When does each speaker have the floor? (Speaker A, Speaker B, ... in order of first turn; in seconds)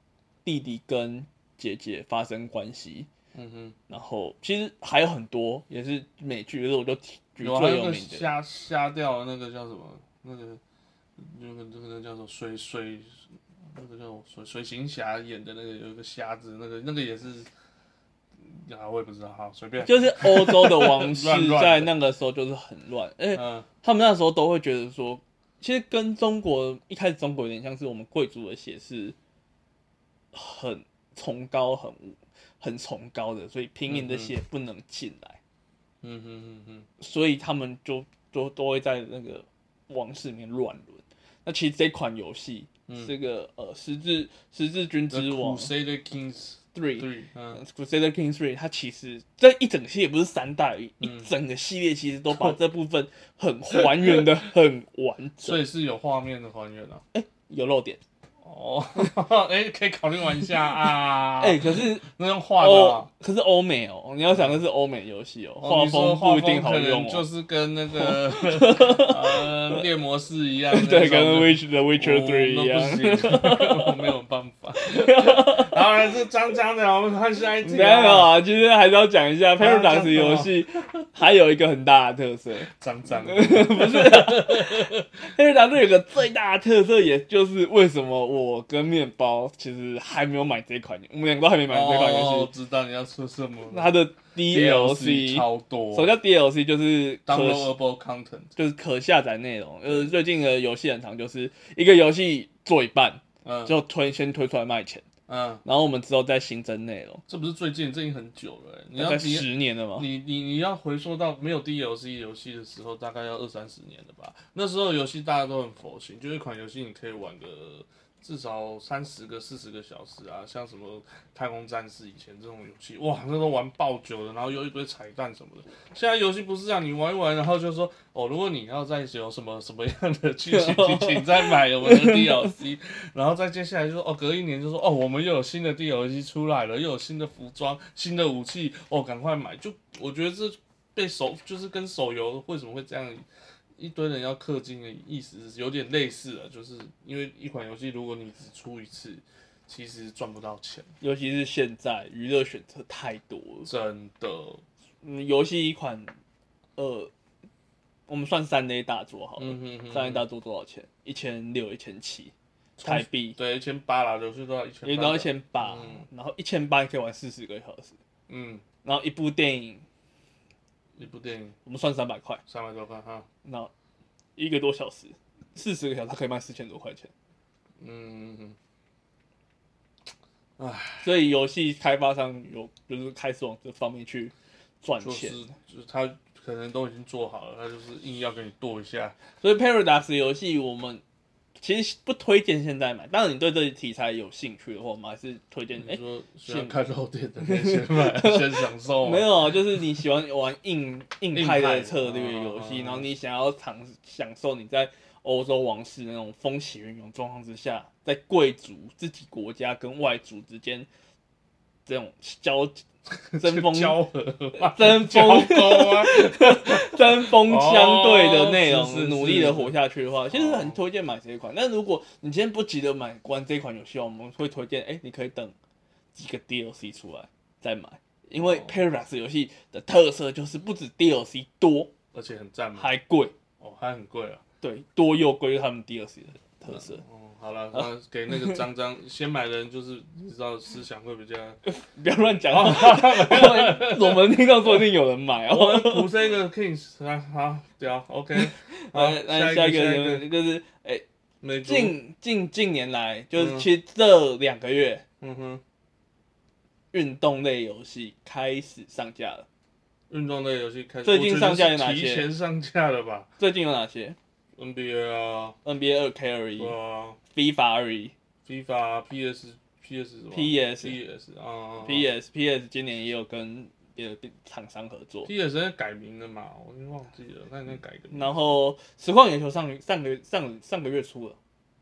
Speaker A: 0.5-3.1, 3.9-8.3, 19.8-29.2, 30.3-35.4, 37.0-45.7, 46.7-55.6, 57.1-58.0, 61.4-62.1, 62.6-67.3, 67.9-69.8, 70.7-74.0, 74.8-75.8, 77.6-82.7, 83.2-92.5, 93.7-97.7, 98.6-105.0, 105.7-107.2, 109.0-110.1, 130.5-132.5, 151.0-153.7, 155.0-156.1, 156.8-157.1, 158.1-163.4, 164.8-168.0, 168.8-169.8, 171.7-172.4, 173.4-173.7, 174.4-177.1, 181.0-185.5, 189.4-191.0, 191.6-196.8, 197.4-210.9, 211.9-212.8, 213.3-214.0, 214.6-225.6, 226.1-231.9, 232.8-233.3, 234.6-237.0, 237.7-238.6, 241.7-246.1, 248.3-251.0, 251.6-255.0, 256.9-259.5, 261.1-262.3, 263.4-264.2, 265.6-266.8, 267.3-268.1, 270.3-271.0, 271.8-275.3, 278.1-281.4
Speaker B: 3.3-3.8, 7.4-10.6, 11.2-13.2, 13.7-17.5, 18.5-21.9, 23.4-23.7, 33.9-34.3, 36.0-36.9, 42.9-43.1, 45.1-47.6, 51.0-51.3, 52.3-52.6, 53.7-54.4, 55.4-57.0, 58.4-63.1, 64.3-64.6, 65.6-78.4, 79.6-80.8, 82.7-85.2, 91.7-93.9, 94.4-96.1, 97.3-98.5, 99.9-100.1, 103.4-103.8, 105.3-105.6, 107.3-143.2, 143.8-150.9, 153.7-154.6, 159.4-160.3, 162.8-166.1, 168.3-168.6, 171.0-171.6, 172.5-173.3, 177.8-178.6, 180.6-181.1, 185.0-189.2, 195.8-199.3, 201.3-203.1, 213.3-219.8, 220.3-220.8, 228.4-228.8, 232.1-232.9, 233.6-234.4, 236.7-241.6, 242.3-244.8, 245.5-250.3, 251.4-252.0, 253.4-253.7, 255.2-255.6, 260.1-263.3, 264.6-265.6, 266.6-267.2, 268.4-272.1, 275.2-278.3